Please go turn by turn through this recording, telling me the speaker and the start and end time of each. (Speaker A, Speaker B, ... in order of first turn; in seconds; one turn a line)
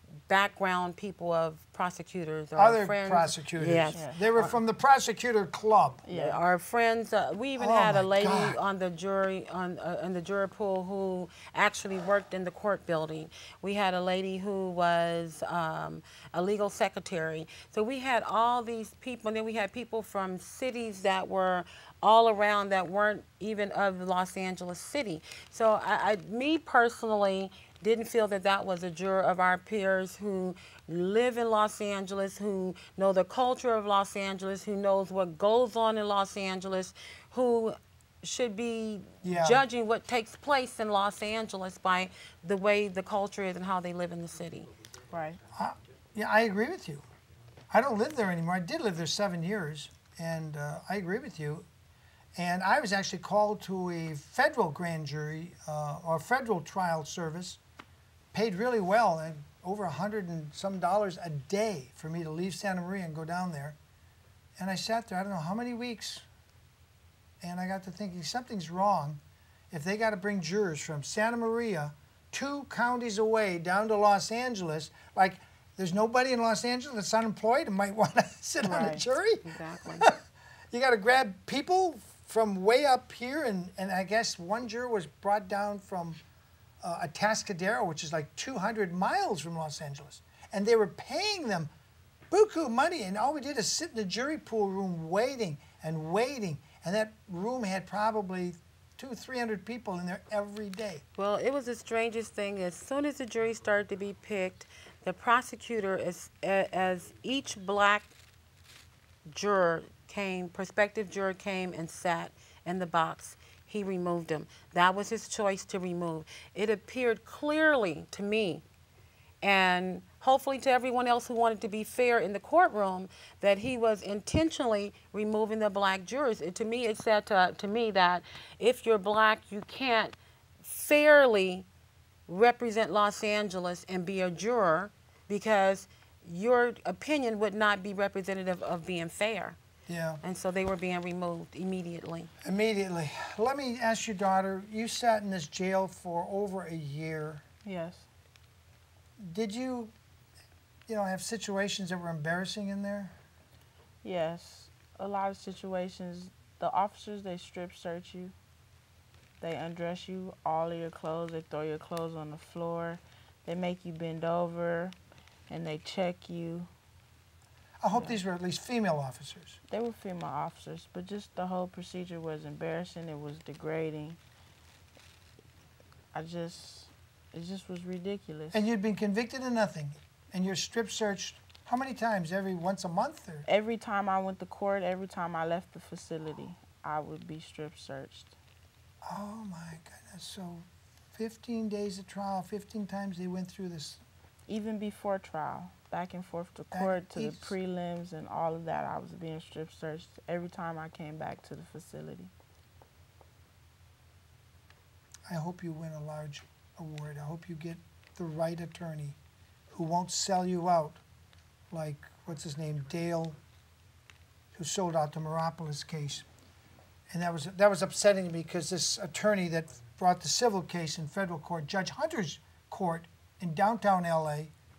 Speaker A: 0.3-4.5
Speaker B: 2.6-6.0
Speaker C: 3.9-4.2
Speaker C: 6.0-6.4
Speaker A: 6.1-44.7
Speaker B: 7.6-8.6
Speaker B: 39.2-39.6
Speaker C: 45.1-45.4
Speaker B: 45.5-47.0
Speaker B: 47.7-51.7
Speaker B: 52.4-57.6
Speaker B: 58.3-63.8
Speaker B: 64.6-66.2
Speaker B: 67.4-69.2
Speaker B: 69.7-80.2
Speaker C: 78.6-79.0
Speaker A: 79.4-80.1
Speaker B: 80.7-86.2
Speaker B: 86.8-91.7
Speaker B: 92.3-101.0
Speaker A: 101.2-108.1
Speaker A: 109.3-118.6
Speaker A: 119.4-131.7
Speaker A: 132.3-139.6
Speaker B: 139.9-140.2
Speaker A: 140.2-142.3
Speaker B: 142.4-147.4
Speaker C: 147.6-148.1
Speaker B: 149.2-149.9
Speaker B: 150.9-153.2
Speaker C: 154.0-158.3
Speaker C: 159.4-164.9
Speaker C: 165.5-166.7
Speaker B: 167.8-169.6
Speaker C: 167.9-168.2
Speaker C: 169.7-174.2
Speaker C: 176.1-178.6
Speaker B: 178.5-183.5
Speaker C: 183.4-188.3
Speaker B: 189.0-194.0
Speaker C: 194.5-202.3
Speaker B: 196.7-197.5
Speaker B: 205.3-209.2
Speaker B: 209.7-211.0
Speaker B: 211.7-213.3
Speaker B: 214.5-216.3
Speaker B: 217.1-224.5